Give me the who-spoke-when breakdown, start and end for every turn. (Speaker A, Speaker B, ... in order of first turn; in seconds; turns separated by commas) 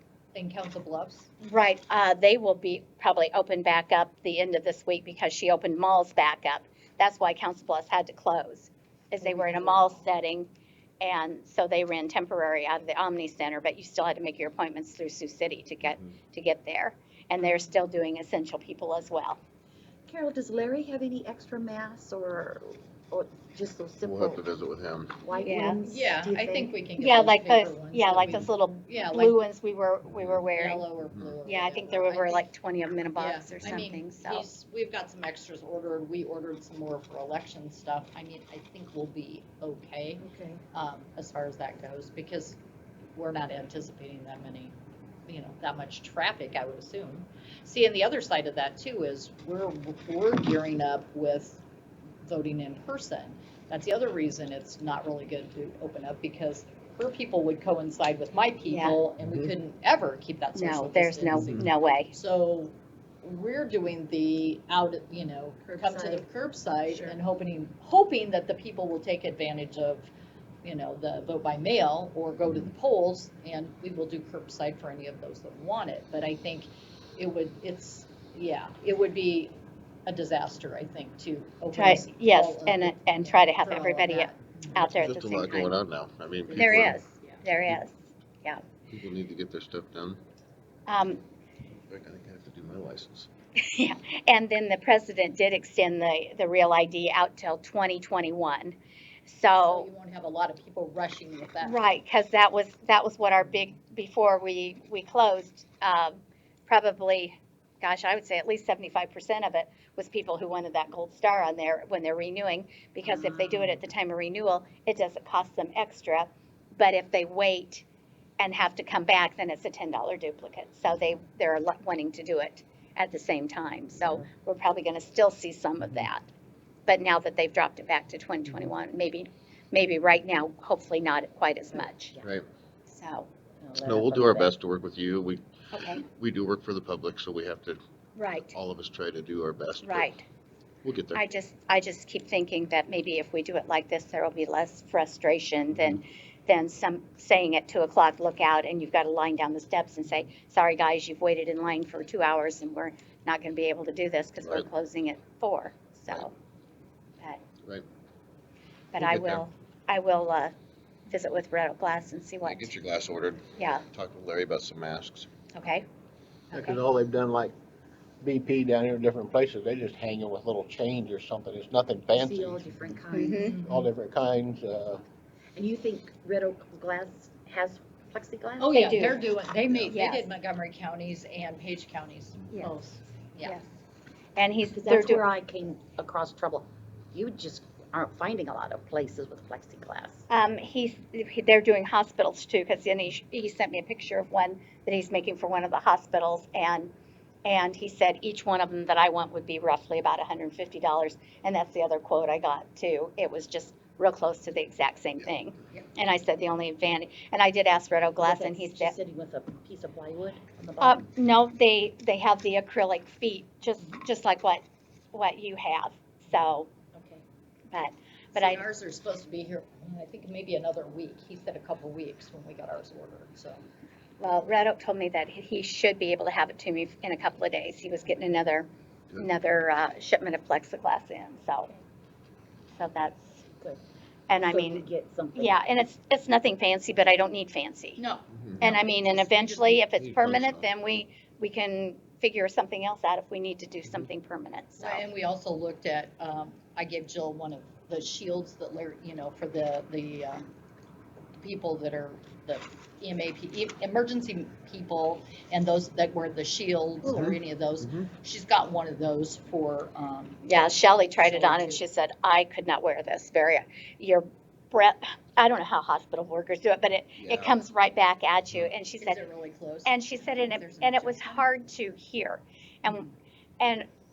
Speaker A: 0.3-1.3, Speaker B: 1.4-10.5, Speaker C: 9.2-9.8, Speaker A: 9.3-9.8, Speaker B: 11.0-19.4, Speaker C: 20.1-24.5, Speaker D: 24.0-25.2, Speaker C: 25.2-26.7, Speaker A: 25.3-29.4, Speaker B: 25.4-25.8, Speaker B: 27.0-30.9, Speaker D: 30.1-30.4, Speaker A: 30.5-32.5, Speaker D: 31.1-31.4, Speaker B: 31.4-34.5, Speaker A: 33.2-42.6, Speaker C: 40.2-40.6, Speaker A: 43.2-44.7, Speaker A: 45.3-51.6, Speaker A: 52.2-70.1, Speaker B: 58.7-59.0, Speaker B: 60.5-62.1, Speaker C: 65.7-66.2, Speaker A: 70.6-79.5, Speaker A: 80.1-84.8, Speaker B: 81.7-85.8, Speaker D: 84.8-87.0, Speaker A: 86.5-87.4, Speaker B: 86.5-87.9, Speaker D: 88.9-90.2, Speaker B: 90.9-91.2, Speaker D: 91.9-93.3, Speaker B: 93.6-99.9, Speaker A: 99.5-101.8, Speaker B: 101.6-117.8, Speaker B: 118.4-126.2, Speaker B: 126.9-132.2, Speaker C: 131.7-132.3, Speaker B: 132.9-133.3, Speaker C: 133.6-134.5, Speaker D: 133.8-137.8, Speaker B: 135.7-136.0, Speaker B: 138.2-138.5, Speaker D: 138.5-140.1, Speaker B: 139.8-140.2, Speaker D: 140.8-141.2, Speaker B: 141.2-156.3, Speaker D: 154.4-154.7, Speaker B: 158.9-160.5, Speaker D: 159.0-159.5, Speaker B: 161.1-162.7, Speaker D: 162.4-165.3, Speaker B: 163.6-163.8, Speaker B: 165.6-165.8, Speaker B: 166.5-166.8, Speaker E: 166.5-167.5, Speaker E: 168.2-173.0, Speaker C: 172.1-173.6, Speaker B: 173.1-173.6, Speaker A: 173.4-173.9, Speaker E: 173.6-175.0, Speaker C: 175.6-179.2, Speaker A: 178.6-183.6, Speaker B: 178.7-179.2, Speaker B: 179.9-180.3, Speaker B: 184.4-185.2, Speaker C: 184.7-190.2, Speaker B: 190.3-196.9, Speaker B: 197.4-209.0, Speaker C: 208.2-211.0, Speaker B: 210.8-214.6, Speaker B: 215.1-216.7, Speaker C: 216.9-217.2, Speaker B: 217.7-218.6, Speaker A: 218.3-223.6, Speaker B: 224.2-231.7, Speaker B: 232.8-233.4, Speaker B: 234.3-238.0, Speaker C: 234.4-235.6, Speaker A: 238.0-239.8, Speaker D: 238.3-238.8, Speaker B: 238.6-245.1, Speaker D: 240.0-240.7, Speaker A: 244.8-250.5, Speaker A: 251.4-260.4, Speaker D: 257.1-258.1, Speaker B: 260.4-269.2, Speaker A: 261.3-261.8, Speaker D: 267.2-267.6, Speaker A: 269.0-271.4, Speaker B: 269.9-273.1, Speaker B: 273.6-273.9